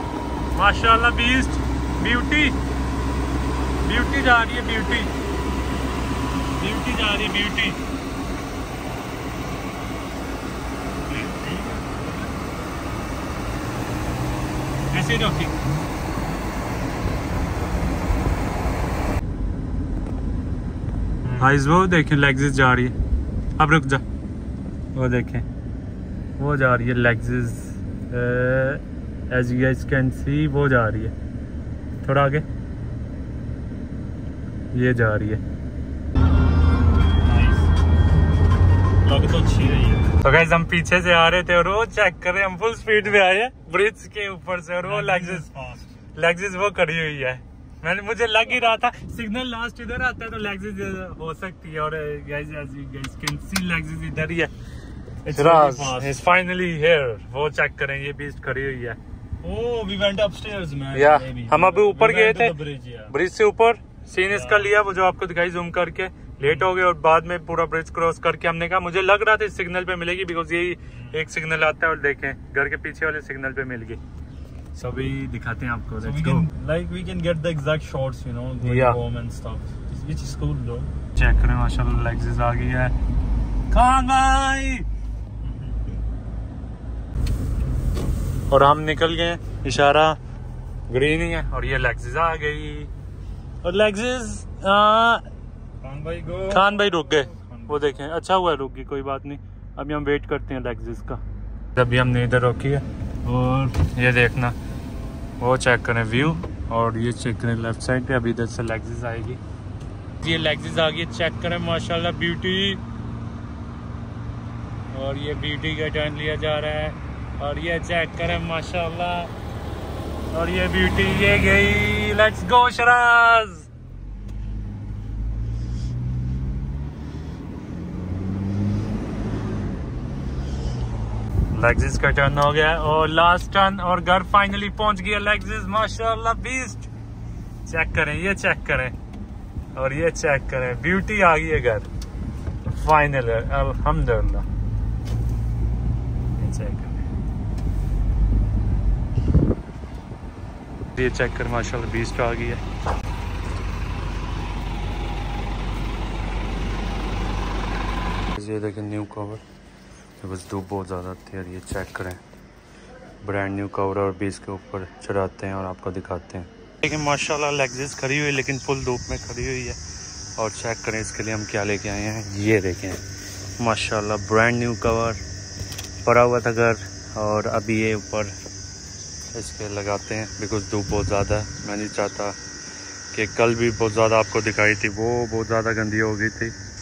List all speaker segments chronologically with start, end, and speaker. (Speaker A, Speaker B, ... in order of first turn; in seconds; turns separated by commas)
Speaker A: 0.5-2.5, Speaker A: 3.8-5.1, Speaker A: 6.5-7.8, Speaker B: 11.1-12.3, Speaker A: 14.9-15.6, Speaker A: 21.3-22.9, Speaker A: 23.6-24.0, Speaker A: 24.9-25.4, Speaker A: 26.4-31.1, Speaker A: 32.0-32.5, Speaker A: 34.7-35.4, Speaker B: 37.2-37.7, Speaker B: 39.0-40.1, Speaker A: 40.2-45.5, Speaker B: 44.8-45.9, Speaker A: 46.1-54.5, Speaker B: 55.2-56.1, Speaker A: 55.3-59.0, Speaker B: 59.4-63.1, Speaker A: 60.9-62.6, Speaker A: 63.1-74.0, Speaker B: 64.3-64.7, Speaker A: 74.7-76.5, Speaker B: 76.0-80.9, Speaker A: 78.6-79.0, Speaker A: 81.1-82.9, Speaker A: 83.7-84.8, Speaker B: 85.4-86.0, Speaker A: 88.5-90.2, Speaker A: 90.9-92.9, Speaker A: 93.6-95.2, Speaker B: 95.8-97.8, Speaker A: 96.5-101.2, Speaker A: 101.8-104.5, Speaker A: 105.4-109.4, Speaker A: 110.2-112.8, Speaker A: 114.9-119.3, Speaker A: 120.3-123.7, Speaker A: 131.5-136.9, Speaker A: 137.7-138.9, Speaker A: 139.7-141.9, Speaker A: 142.7-144.4, Speaker A: 146.4-147.1, Speaker A: 150.9-152.6, Speaker A: 158.3-159.4, Speaker A: 160.2-162.2, Speaker A: 163.2-169.8, Speaker A: 170.3-173.0, Speaker A: 173.6-175.2, Speaker A: 176.0-178.3, Speaker A: 179.3-182.4, Speaker A: 183.1-186.6